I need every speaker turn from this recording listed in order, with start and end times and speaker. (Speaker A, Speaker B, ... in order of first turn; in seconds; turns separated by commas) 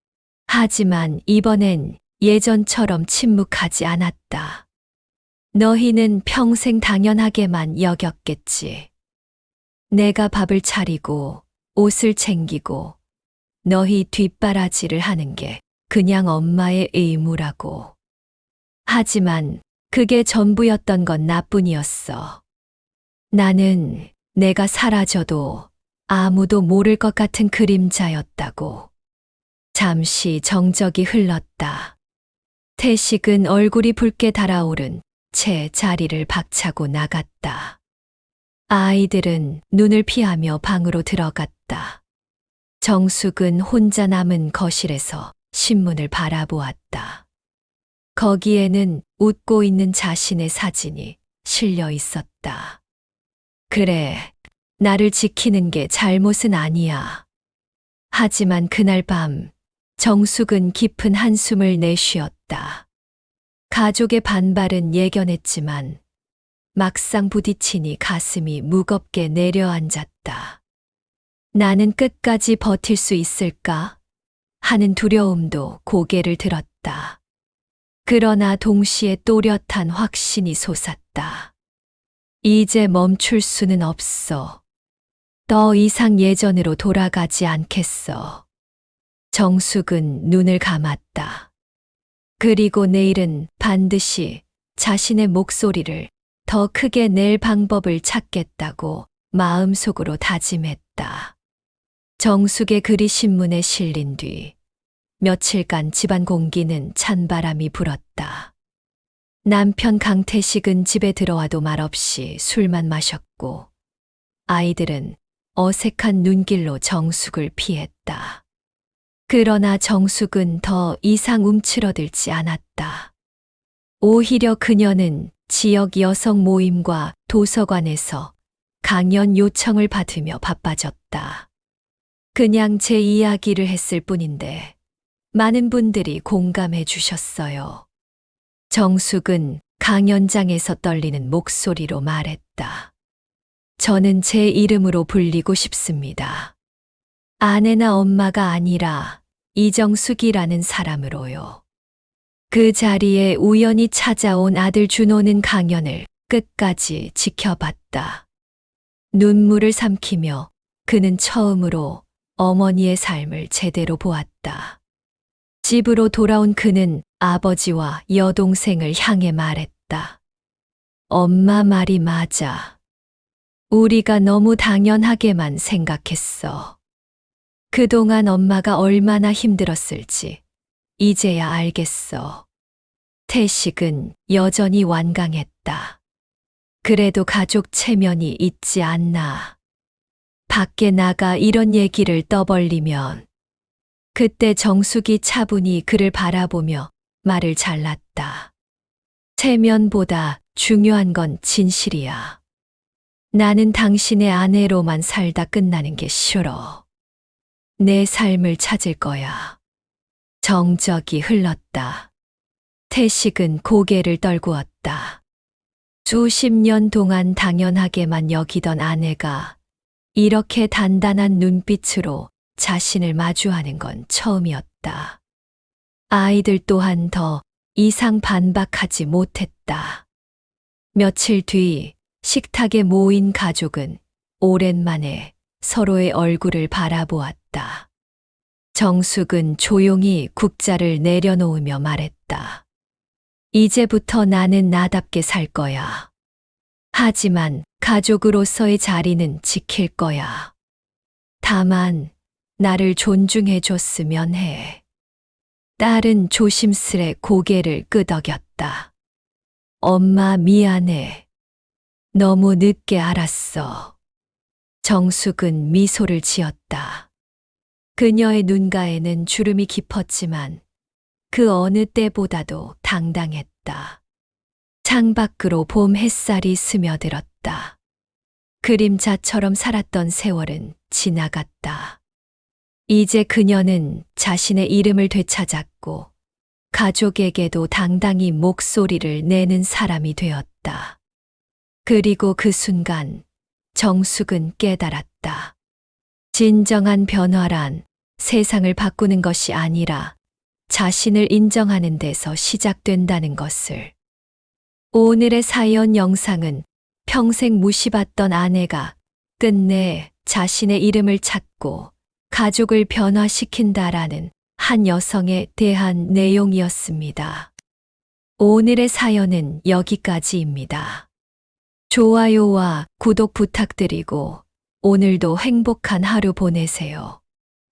Speaker A: 0.5-4.7, Speaker A: 5.5-8.9, Speaker A: 9.9-13.0, Speaker A: 13.6-17.9, Speaker A: 18.9-22.4, Speaker A: 23.3-28.9, Speaker A: 29.7-32.0, Speaker A: 32.8-37.8, Speaker A: 38.7-42.0, Speaker A: 42.8-47.2, Speaker A: 48.1-52.8, Speaker A: 53.7-57.2, Speaker A: 58.1-62.9, Speaker A: 63.7-66.0, Speaker A: 66.7-70.6, Speaker A: 71.5-74.0, Speaker A: 74.6-77.2, Speaker A: 78.0-81.5, Speaker A: 82.4-84.6, Speaker A: 85.5-88.4, Speaker A: 89.3-91.5, Speaker A: 92.4-101.3, Speaker A: 102.2-104.5, Speaker A: 105.2-108.5, Speaker A: 109.4-113.7, Speaker A: 114.5-118.4, Speaker A: 119.3-123.1, Speaker A: 124.0-131.5, Speaker A: 132.3-134.7, Speaker A: 135.3-137.8, Speaker A: 138.7-142.9, Speaker A: 143.8-146.5, Speaker A: 147.4-151.6, Speaker A: 152.5-158.2, Speaker A: 159.1-164.8, Speaker A: 165.6-170.2, Speaker A: 171.1-172.8, Speaker A: 173.7-176.8, Speaker A: 177.7-180.4, Speaker A: 181.0-182.5, Speaker A: 183.3-186.0, Speaker A: 186.8-189.6, Speaker A: 190.5-193.3, Speaker A: 194.1-198.5, Speaker A: 199.4-202.4, Speaker A: 203.3-206.8, Speaker A: 207.8-209.6, Speaker A: 210.4-212.1, Speaker A: 212.9-215.2, Speaker A: 216.1-219.6, Speaker A: 220.1-225.2, Speaker A: 226.1-230.1, Speaker A: 230.9-237.9, Speaker A: 238.7-242.6, Speaker A: 243.5-246.1, Speaker A: 246.9-250.5, Speaker A: 251.4-254.8, Speaker A: 255.8-258.9, Speaker A: 259.8-261.2, Speaker A: 262.1-263.9, Speaker A: 264.8-267.1, Speaker A: 267.9-270.6, Speaker A: 271.3-274.0, Speaker A: 274.8-277.8, Speaker A: 278.6-282.0, Speaker A: 282.9-286.1, Speaker A: 286.7-291.0, Speaker A: 291.8-295.5, Speaker A: 296.3-300.2, Speaker A: 300.7-303.9, Speaker A: 304.9-317.5, Speaker A: 318.4-321.1, Speaker A: 321.9-327.2